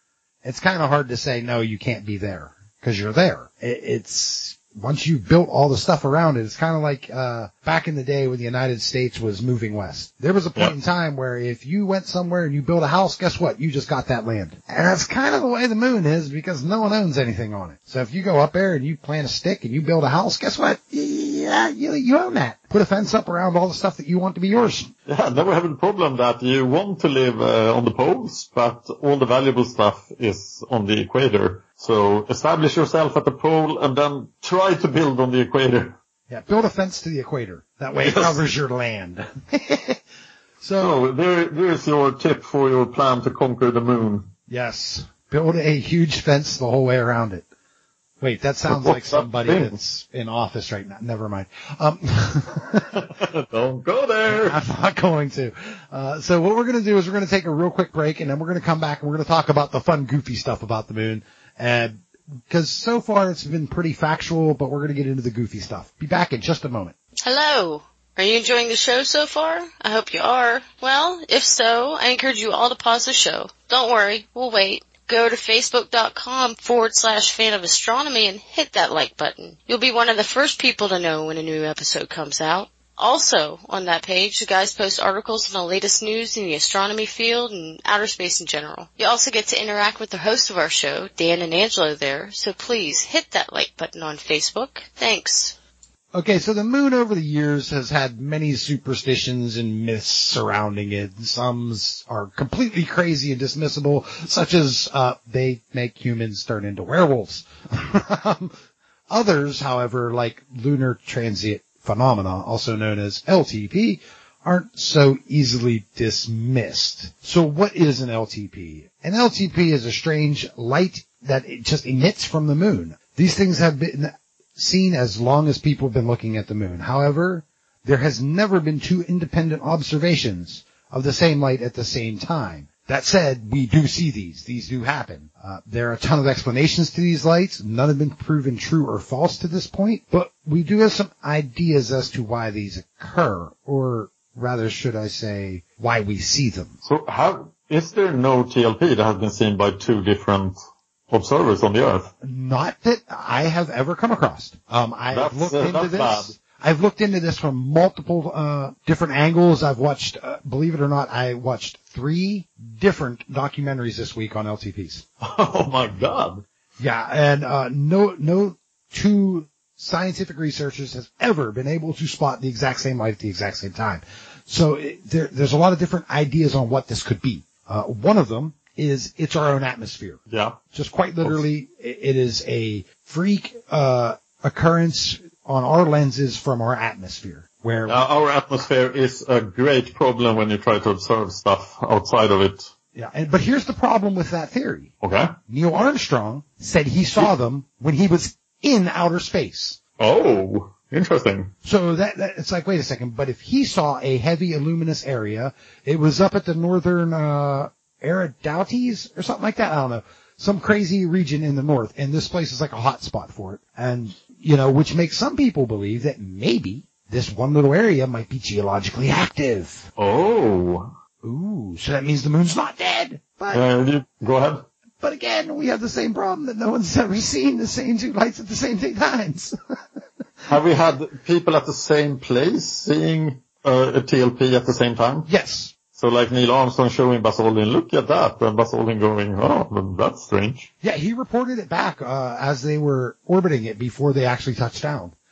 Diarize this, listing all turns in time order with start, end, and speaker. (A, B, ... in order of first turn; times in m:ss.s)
0:00.4-0:24.9 A
0:25.0-0:36.0 B
0:36.3-0:40.0 A
0:38.0-0:38.4 B
0:40.6-0:41.0 A
0:40.8-0:44.3 B
0:44.5-0:47.4 A
0:48.2-0:52.9 A
0:48.6-0:49.7 B
0:52.9-0:54.6 B
0:54.3-1:01.9 A
1:02.5-1:06.9 A
1:07.2-1:35.6 C
1:36.1-1:48.6 A
1:49.1-2:26.8 A
2:26.8-2:32.1 B
2:32.2-2:45.0 A
2:35.1-2:36.3 B
2:45.2-2:46.4 B
2:46.8-3:00.2 A
3:00.3-3:00.6 B
3:00.7-3:08.0 A
3:07.9-3:12.7 B
3:12.9-3:14.9 A
3:15.0-3:15.3 B
3:15.5-3:19.8 A
3:20.0-3:21.5 B
3:21.6-3:39.9 A
3:40.0-3:40.9 B
3:41.2-3:43.7 A
3:43.5-3:44.6 B
3:45.0-3:49.5 A
3:50.5-3:55.3 B
3:55.3-3:55.7 A
3:55.9-4:00.7 B
4:00.8-4:05.1 A